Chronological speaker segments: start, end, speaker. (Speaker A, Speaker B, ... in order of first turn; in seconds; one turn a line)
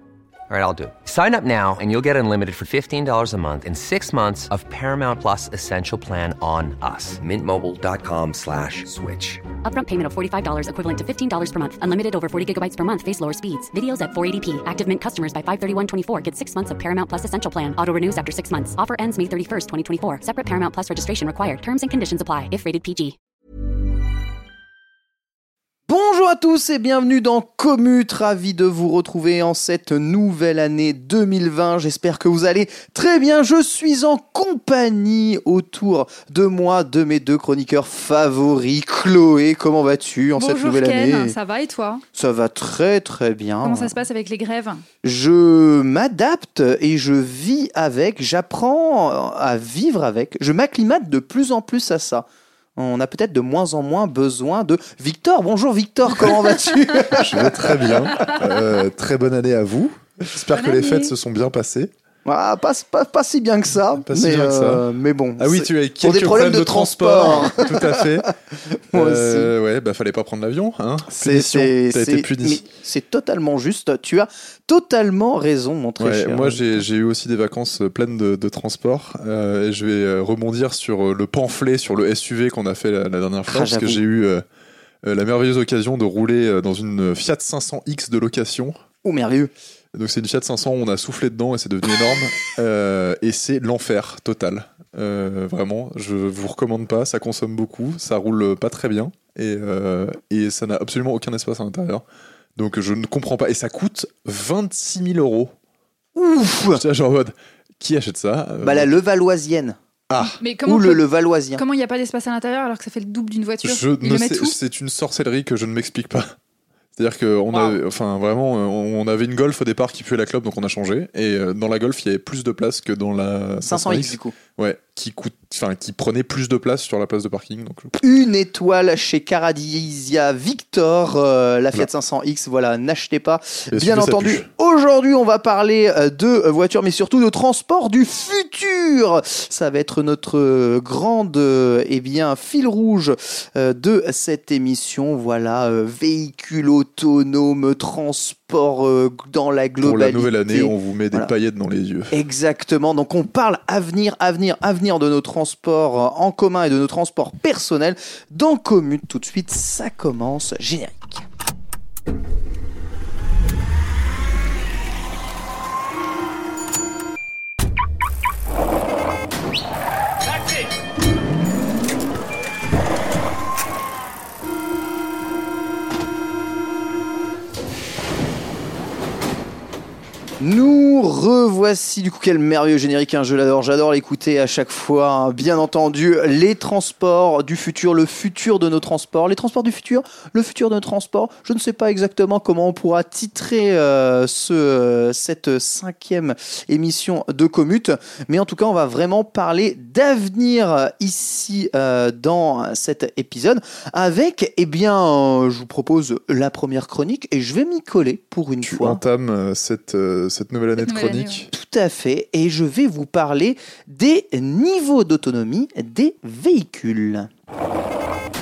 Speaker A: 0.5-9.4
Speaker B: 9.6-23.2
Speaker C: 25.9-41.4
Speaker D: 40.4-42.0
Speaker C: 42.1-44.0
Speaker D: 43.6-44.8
Speaker C: 45.0-52.3
Speaker C: 52.8-58.3
Speaker E: 57.1-61.9
Speaker D: 58.2-58.5
Speaker D: 60.5-61.1
Speaker C: 62.2-68.3
Speaker E: 63.9-64.8
Speaker E: 65.4-68.3
Speaker C: 68.9-69.5
Speaker E: 68.9-72.6
Speaker C: 71.1-76.8
Speaker E: 76.0-84.4
Speaker C: 83.5-84.0
Speaker E: 85.0-88.8
Speaker C: 89.0-89.5
Speaker E: 89.9-102.0
Speaker E: 102.6-105.5
Speaker C: 106.2-106.8
Speaker E: 106.8-108.9
Speaker C: 108.6-109.8
Speaker E: 110.1-110.4
Speaker D: 110.4-111.0
Speaker C: 110.7-111.6
Speaker D: 111.6-114.5
Speaker E: 113.6-116.4
Speaker E: 117.0-128.0
Speaker C: 123.7-124.4
Speaker C: 128.0-151.3
Speaker E: 133.7-134.5
Speaker E: 149.8-152.2
Speaker C: 152.1-161.2
Speaker C: 180.4-209.0
Speaker E: 208.6-211.5
Speaker D: 210.8-211.4
Speaker C: 211.5-217.3